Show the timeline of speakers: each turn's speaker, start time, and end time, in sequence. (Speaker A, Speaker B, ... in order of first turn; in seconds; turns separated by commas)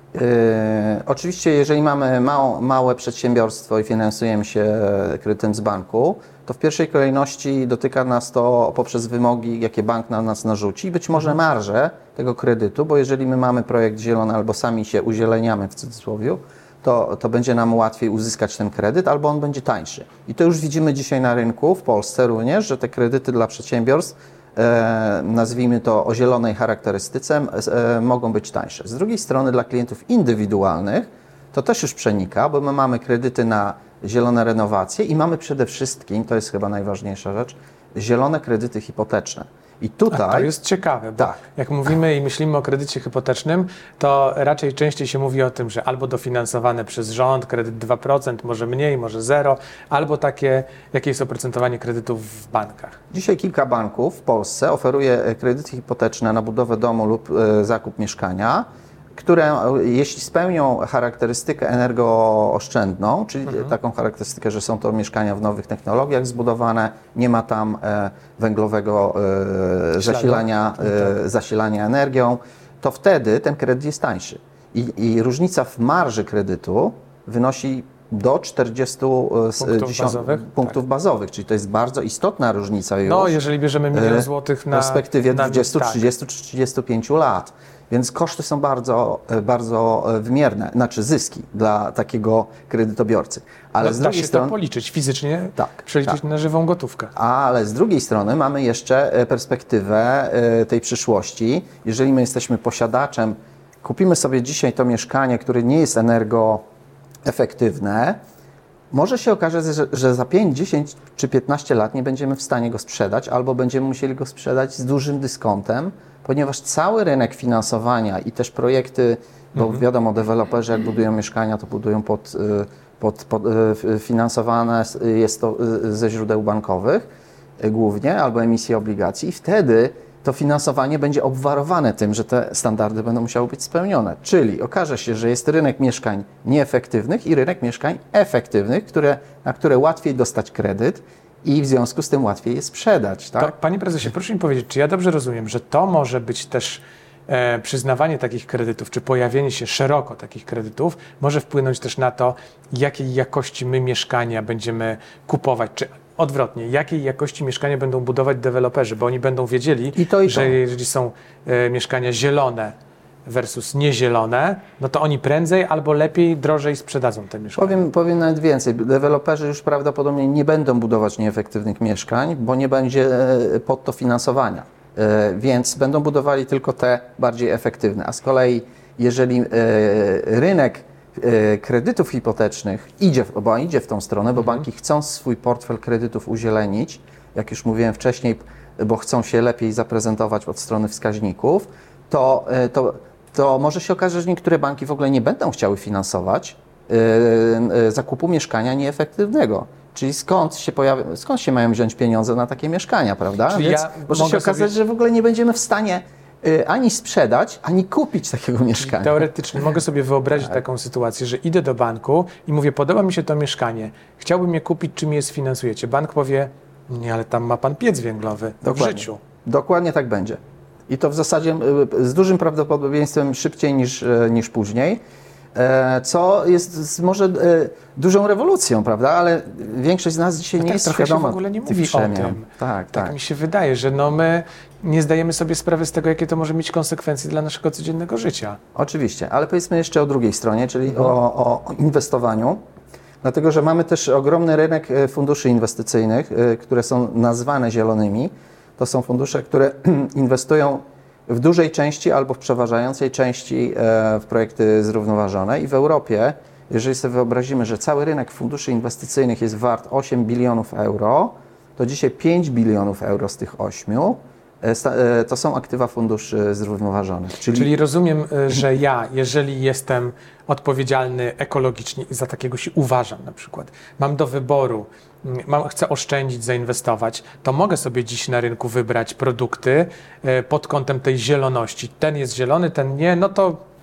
Speaker A: 0.1-40.5, Speaker B: 40.1-53.0, Speaker A: 53.1-83.4, Speaker B: 63.5-63.7, Speaker B: 70.0-71.1, Speaker B: 79.6-80.8, Speaker B: 83.0-86.1, Speaker A: 83.9-94.5, Speaker B: 93.8-97.1, Speaker A: 95.6-96.2, Speaker A: 97.2-106.6, Speaker A: 107.2-108.2, Speaker A: 108.9-127.0, Speaker A: 127.6-143.5, Speaker B: 143.4-162.7, Speaker A: 159.9-160.6, Speaker B: 163.2-167.8, Speaker A: 167.6-209.3, Speaker B: 184.4-184.6, Speaker B: 203.5-204.7, Speaker B: 208.8-219.2, Speaker A: 218.6-225.0, Speaker A: 225.5-233.2, Speaker B: 230.6-238.6, Speaker A: 238.7-242.6, Speaker A: 243.2-267.7, Speaker B: 267.5-283.6